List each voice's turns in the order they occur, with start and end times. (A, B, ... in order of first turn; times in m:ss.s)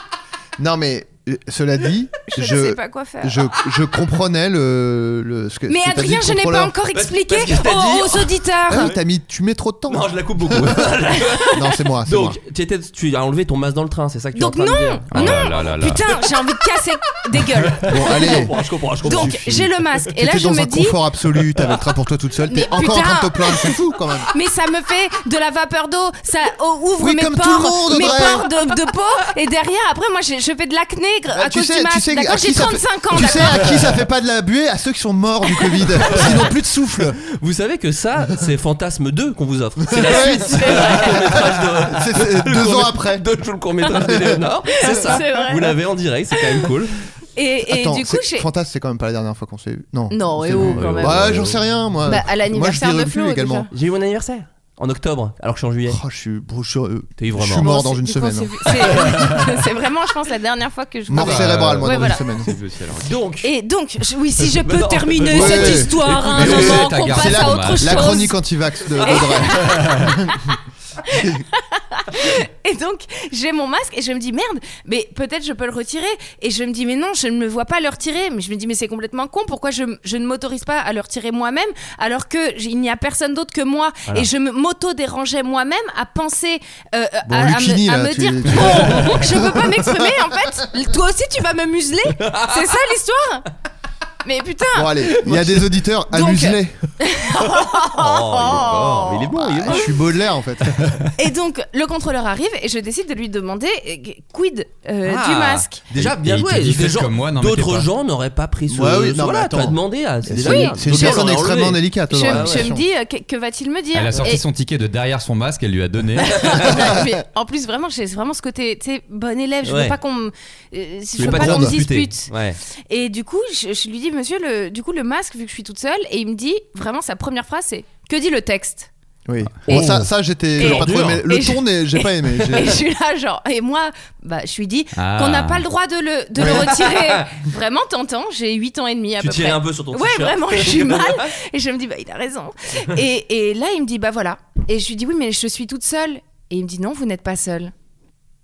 0:00.6-0:06.7 A
0:02.3-0:03.5 B
0:05.7-0:09.0 B
0:06.9-0:08.9 C
0:08.7-0:11.0 A
0:09.9-0:16.2 C
0:11.5-0:12.4 A
0:14.4-0:18.5 B
0:15.1-0:16.0 D
0:17.8-0:19.4 C
0:17.9-0:24.3 A
0:19.0-0:21.0 B
0:22.5-0:33.8 B
0:27.0-0:28.5 A
0:31.3-0:37.2 A
0:36.0-0:36.4 C
0:37.4-0:47.0 C
0:39.9-0:43.3 A
0:40.1-0:41.4 B
0:44.0-0:45.2 A
0:44.8-0:45.8 B
0:46.3-0:46.7 B
0:47.4-0:48.5 B
0:47.7-0:53.7 A
0:50.1-0:51.2 B
0:50.5-0:51.5 C
0:52.1-0:53.7 B
0:53.7-0:56.0 C
0:55.9-0:59.2 A
0:57.2-0:57.7 C
0:57.6-1:02.2 B
1:01.1-1:02.5 A
1:01.1-1:03.1 D
1:03.0-1:03.5 C
1:03.4-1:08.4 B
1:04.4-1:06.9 C
1:05.3-1:10.3 A
1:06.2-1:08.2 D
1:08.9-1:09.4 C
1:09.0-1:10.6 B
1:11.1-1:33.5 B
1:27.3-1:30.3 A
1:32.2-1:32.6 C
1:34.2-1:35.2 B
1:34.7-1:36.8 A
1:35.2-1:35.6 C
1:36.1-1:40.0 B
1:37.4-1:39.9 C
1:39.4-1:40.9 A
1:41.2-1:45.8 B
1:45.0-1:52.7 C
1:45.9-1:47.9 D
1:48.7-1:52.8 A
1:50.4-1:51.3 B
1:52.1-1:54.4 B
1:53.9-1:56.4 D
1:56.2-2:02.3 B
1:56.4-1:56.7 C
1:59.6-2:00.0 C
2:01.2-2:02.6 C
2:01.2-2:01.8 A
2:02.9-2:08.9 B
2:09.3-2:12.8 A
2:09.7-2:10.0 C
2:10.6-2:11.2 C
2:10.6-2:27.7 B
2:15.0-2:15.6 D
2:16.4-2:17.3 C
2:19.2-2:21.3 C